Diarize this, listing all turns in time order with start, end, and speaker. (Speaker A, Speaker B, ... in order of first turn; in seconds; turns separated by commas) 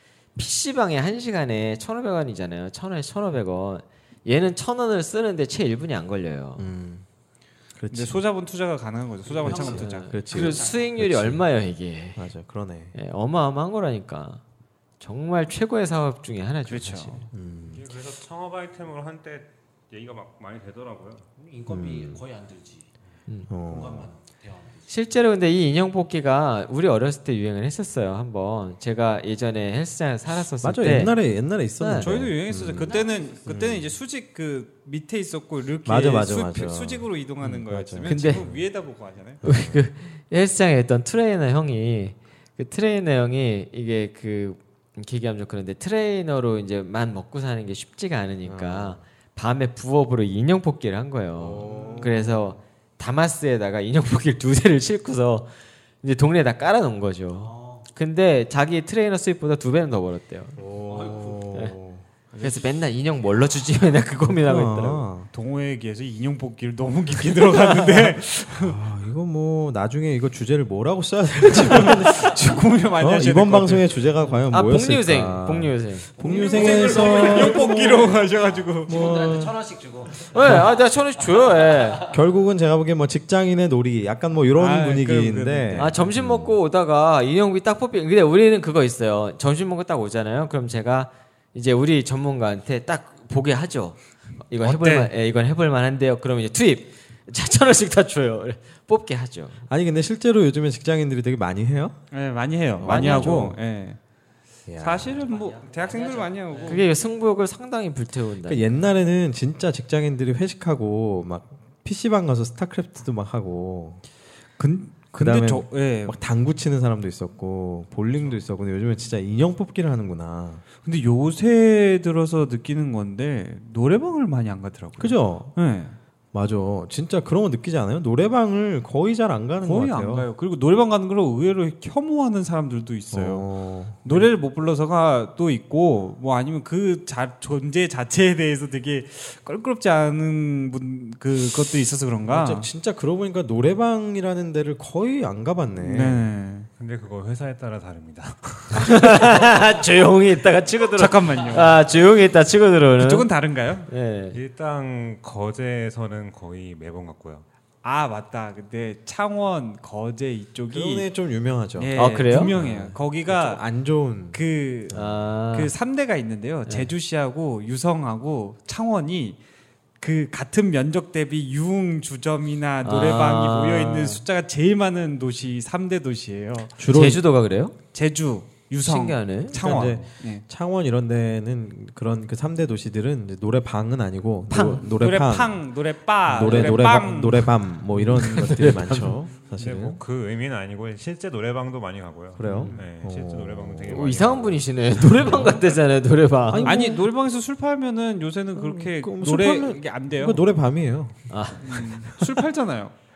Speaker A: 0.4-6.7, Speaker B: 6.6-7.1, Speaker B: 7.8-8.2, Speaker C: 7.9-10.8, Speaker B: 9.4-11.4, Speaker A: 9.4-12.3, Speaker B: 12.2-12.9, Speaker A: 12.9-14.4, Speaker A: 15.0-17.2, Speaker C: 16.7-17.2, Speaker B: 17.3-17.8, Speaker D: 17.7-21.2, Speaker E: 21.4-22.9, Speaker B: 21.7-22.2, Speaker B: 23.5-24.1, Speaker E: 23.6-24.9, Speaker A: 24.9-31.2, Speaker B: 30.6-33.9, Speaker A: 31.8-32.1, Speaker C: 32.0-39.4, Speaker E: 32.9-33.2, Speaker B: 35.9-38.6, Speaker A: 38.0-38.5, Speaker B: 39.4-39.9, Speaker A: 39.4-55.5, Speaker B: 48.5-49.0, Speaker B: 51.4-52.6, Speaker E: 51.6-52.1, Speaker A: 56.0-60.6, Speaker E: 57.4-57.9, Speaker B: 60.6-62.0, Speaker E: 60.9-61.5, Speaker C: 62.3-62.6, Speaker A: 62.4-65.1, Speaker B: 64.3-65.3, Speaker C: 65.3-68.8, Speaker B: 68.5-78.2, Speaker C: 71.5-73.9, Speaker A: 74.5-76.1, Speaker C: 76.2-79.0, Speaker E: 76.6-80.6, Speaker B: 78.9-79.6, Speaker A: 80.2-82.1, Speaker B: 82.1-86.6, Speaker C: 84.5-86.0, Speaker A: 85.8-99.6, Speaker C: 94.6-95.1, Speaker B: 99.7-102.0, Speaker C: 102.1-104.0, Speaker B: 102.8-103.6, Speaker A: 102.9-103.4, Speaker B: 104.7-105.3, Speaker C: 104.8-106.9, Speaker E: 105.3-106.9, Speaker A: 106.7-108.7, Speaker B: 108.4-114.0, Speaker C: 114.6-116.2, Speaker B: 115.2-120.6, Speaker C: 120.8-126.0, Speaker B: 125.0-125.5, Speaker B: 126.3-130.3, Speaker C: 129.6-133.5, Speaker B: 133.1-134.3, Speaker C: 134.0-142.7, Speaker B: 142.3-146.3, Speaker C: 145.8-146.7, Speaker D: 146.8-149.3, Speaker A: 148.7-153.3, Speaker C: 151.0-151.8, Speaker C: 153.0-153.9, Speaker A: 153.9-154.4, Speaker D: 154.3-157.4, Speaker C: 157.8-161.1, Speaker B: 160.7-165.2, Speaker C: 161.8-163.6, Speaker A: 161.9-162.5, Speaker C: 164.3-164.9, Speaker A: 164.9-165.7, Speaker C: 165.5-169.4, Speaker C: 170.0-176.7, Speaker A: 172.8-174.2, Speaker B: 176.8-177.2, Speaker A: 176.9-177.8, Speaker C: 177.9-180.4, Speaker A: 178.8-179.6, Speaker B: 179.5-185.6, Speaker A: 184.5-184.9, Speaker C: 184.9-187.6, Speaker B: 186.3-190.0, Speaker A: 186.4-186.8, Speaker A: 187.9-189.2, Speaker D: 189.6-195.6, Speaker B: 192.4-194.0, Speaker A: 192.4-192.8, Speaker A: 193.9-196.8, Speaker B: 196.5-197.1, Speaker C: 196.6-200.4, Speaker B: 198.6-201.3, Speaker A: 201.3-201.8, Speaker C: 201.6-202.9